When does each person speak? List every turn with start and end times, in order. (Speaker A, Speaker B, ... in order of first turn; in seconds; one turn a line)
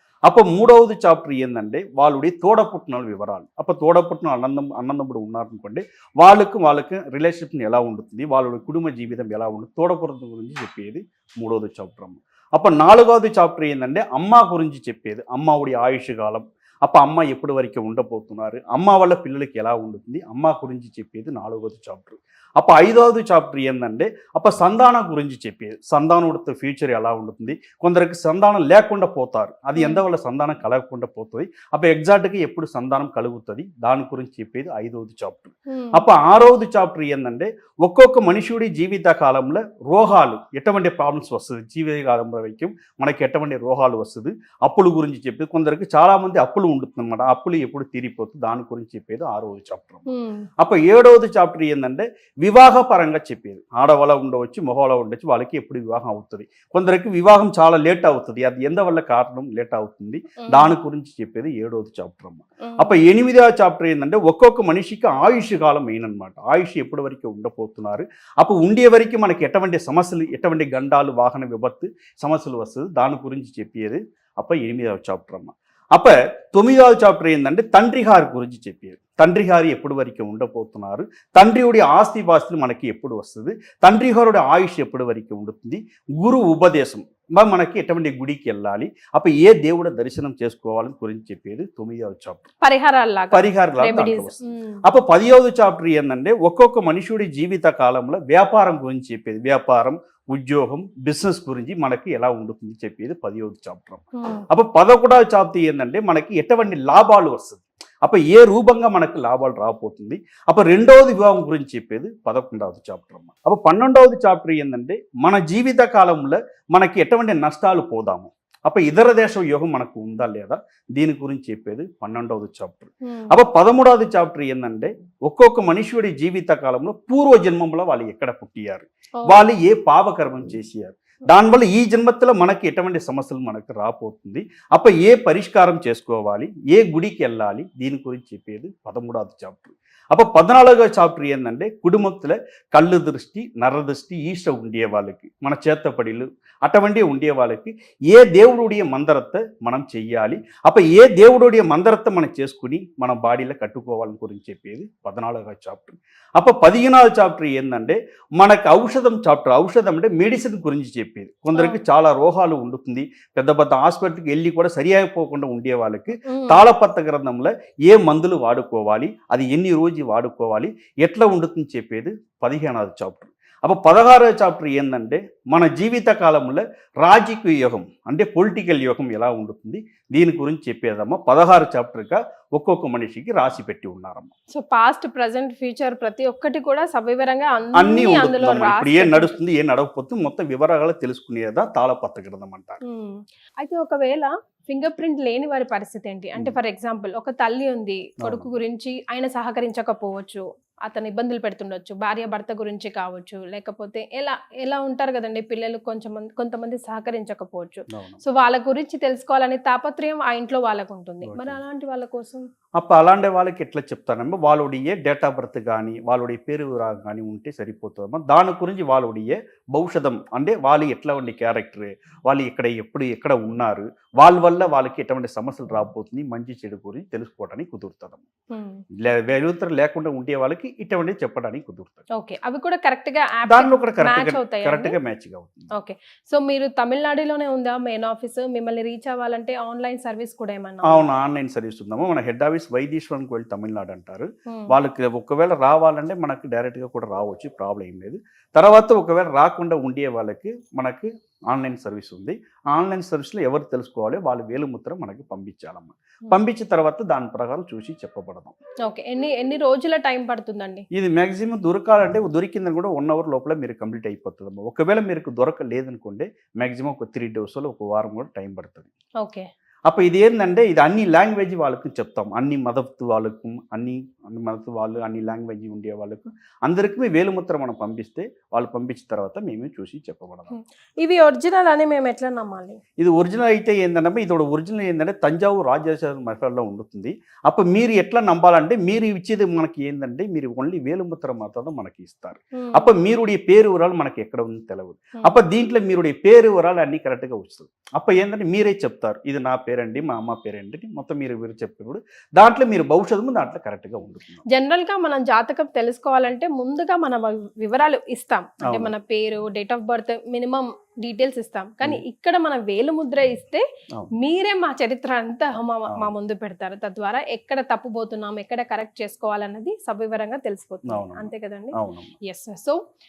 Speaker A: 0.3-50.1
Speaker B: 29.8-30.0
Speaker B: 35.7-36.0
Speaker B: 50.1-50.5
Speaker A: 50.6-92.5
Speaker B: 60.4-60.7
Speaker B: 62.6-62.9
Speaker B: 92.6-94.8
Speaker A: 93.3-184.3
Speaker B: 104.2-104.5
Speaker B: 123.1-123.3
Speaker B: 129.2-129.4
Speaker B: 161.5-161.8
Speaker B: 166.3-166.6
Speaker B: 184.5-189.4
Speaker A: 187.8-192.8
Speaker B: 192.8-212.5
Speaker A: 198.2-198.5
Speaker A: 207.9-208.2
Speaker A: 211.2-211.6
Speaker A: 212.8-228.2
Speaker B: 228.5-228.8
Speaker A: 229.0-232.1
Speaker B: 232.2-235.0
Speaker A: 233.5-235.7
Speaker B: 235.7-241.1
Speaker A: 240.9-258.6
Speaker B: 258.9-260.8
Speaker A: 260.9-268.9
Speaker B: 269.2-269.5
Speaker A: 269.9-280.5
Speaker B: 280.5-282.8
Speaker A: 283.0-304.4
Speaker B: 292.6-292.9
Speaker B: 304.5-313.6
Speaker A: 308.6-308.9
Speaker B: 314.2-322.8
Speaker A: 320.9-322.1